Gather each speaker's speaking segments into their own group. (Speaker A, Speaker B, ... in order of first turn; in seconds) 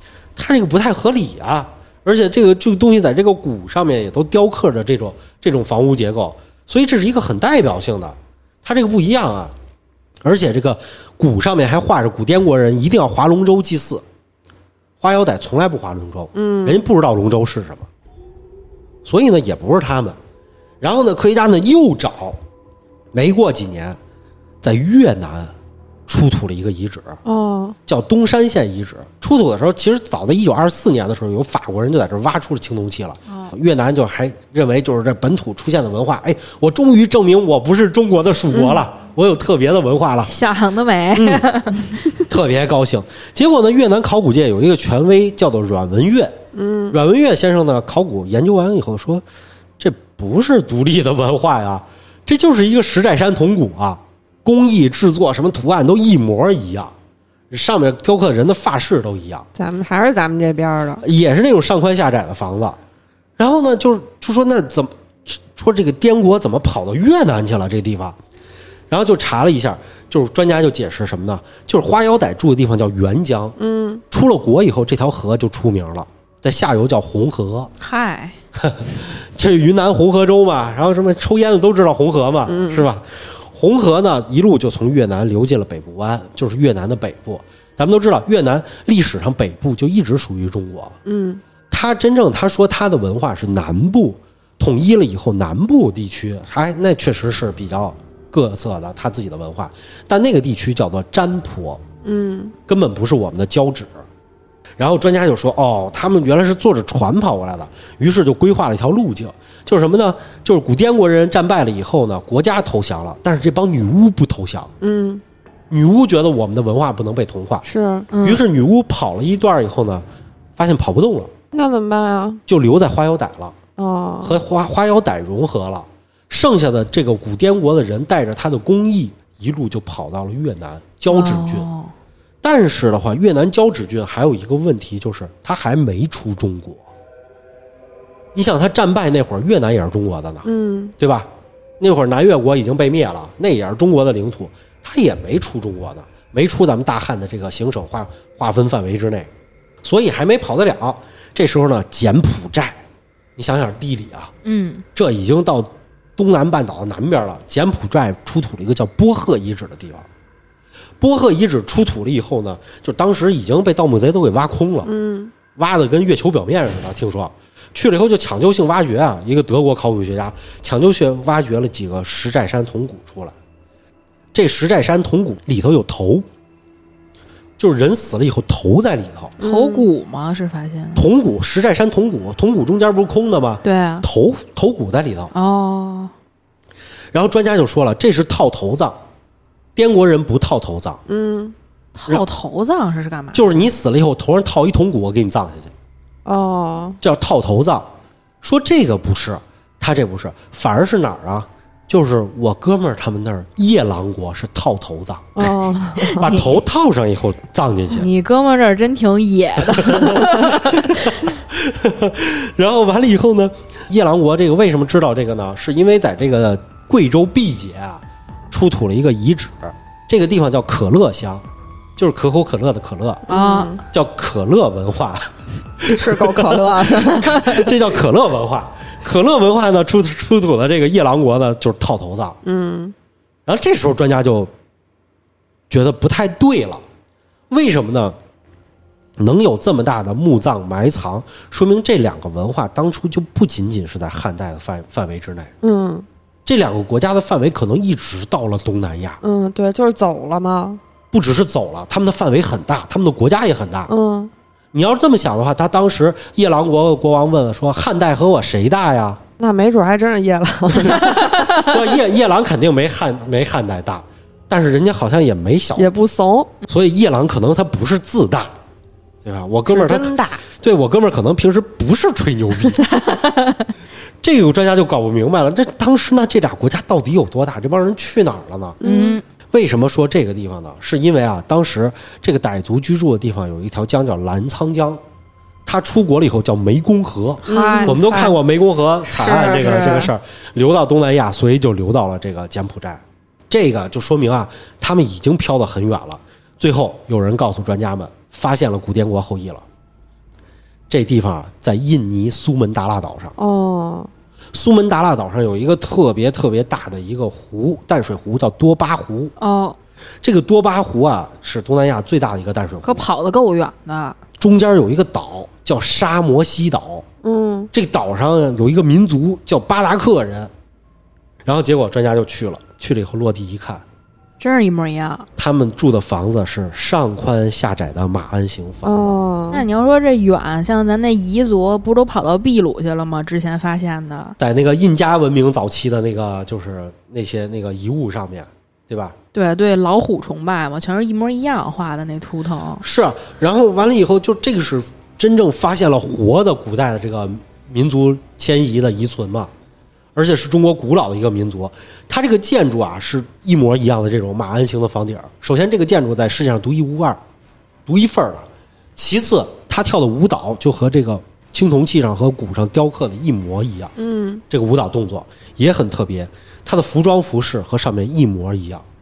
Speaker A: 0.3-9.5, 10.2-14.0, 15.0-17.9, 19.0-20.2, 20.8-22.4, 23.1-24.0, 24.6-25.5, 26.1-27.2, 27.9-40.3, 41.1-41.5, 42.0-49.2, 49.8-56.9, 57.5-59.5, 61.0-62.8, 63.4-68.2, 68.9-73.5, 74.1-77.7, 78.5-91.0, 91.7-101.8, 102.7-104.0, 104.8-114.7, 115.7-117.7, 118.2-120.0, 120.6-121.3, 122.5-123.5, 124.2-131.7, 132.4-136.9, 138.3-140.4, 141.0-141.3, 141.8-149.3, 149.8-152.8, 153.4-154.3, 154.9-160.1, 161.0-164.9, 165.5-173.3, 174.3-176.2, 177.6-179.3, 180.9-185.3, 187.1-189.0, 189.8-191.0, 193.3-195.7, 197.0-208.1, 209.7-221.4, 222.0-223.2, 223.9-232.4, 233.4-234.5, 235.7-236.8, 237.5-238.2, 239.2-245.5, 246.4-249.2, 251.1-253.9, 254.7-259.2, 261.6-265.9, 266.7-268.5, 269.2-272.9, 274.2-278.8, 279.5-285.0, 285.6-299.6, 300.9-303.3, 304.5-309.3, 310.2-313.1, 314.4-317.0, 317.7-320.5, 321.4-323.8, 325.4-329.2, 334.4-339.2, 342.8-349.5, 350.1-357.2, 357.9-363.9, 364.5-368.8
Speaker B: 16.3-16.9, 27.2-27.8, 46.5-47.0, 59.5-61.0, 73.6-74.0, 82.5-82.9, 91.0-91.4, 102.0-102.5, 114.8-115.2, 117.6-118.1, 121.5-122.4, 123.8-124.4, 140.4-140.9, 164.8-165.3, 179.4-179.9, 191.1-191.5, 196.2-197.0, 205.3-206.2, 223.3-223.8, 225.8-227.4, 232.4-232.9, 245.6-246.1, 249.2-250.8, 253.9-254.3, 259.4-261.7, 265.8-266.5, 269.7-270.4, 278.8-279.2, 287.5-288.3, 289.2-290.0, 303.4-304.1, 317.2-317.7, 328.8-329.6, 364.0-364.4
Speaker C: 33.3-33.5, 40.3-42.0, 77.8-78.4, 118.1-118.4, 131.1-131.9, 154.4-154.8, 179.4-181.1, 183.6-184.1, 185.3-186.1, 191.9-193.7, 206.1-206.5, 207.9-211.2, 223.3-223.7, 278.8-279.2, 287.4-288.3, 289.1-290.1, 309.4-309.8, 312.8-314.2, 324.4-325.3, 329.5-334.4, 339.3-342.8